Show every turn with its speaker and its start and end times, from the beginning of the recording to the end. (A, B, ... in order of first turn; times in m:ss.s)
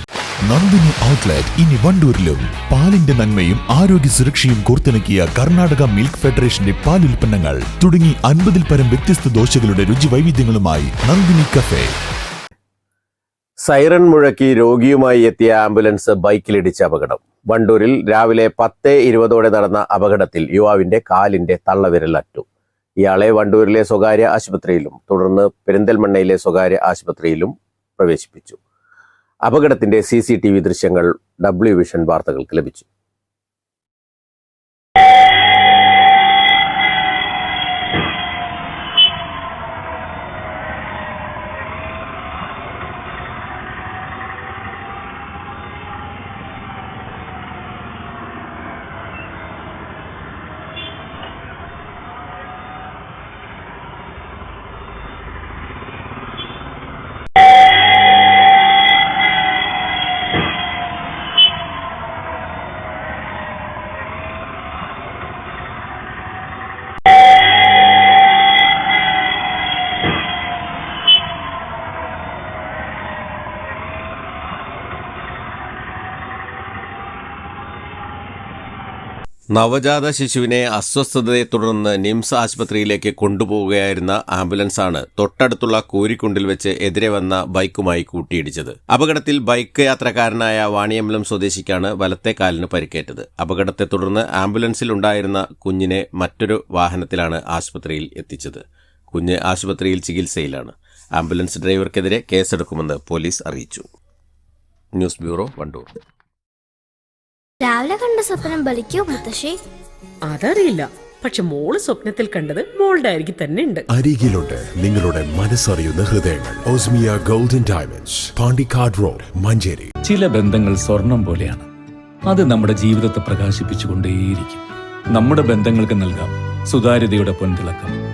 0:00.5-0:11.9 A
0:13.6-0:22.4 B
0:23.0-0:28.6 B
0:29.5-0:32.9 B
1:19.6-1:43.9 B
1:45.0-1:45.9 B
1:47.6-1:49.6 C
1:50.3-1:53.8 D
1:53.9-1:59.9 E
2:00.1-2:01.7 F
2:02.3-2:04.6 F
2:05.1-2:08.0 F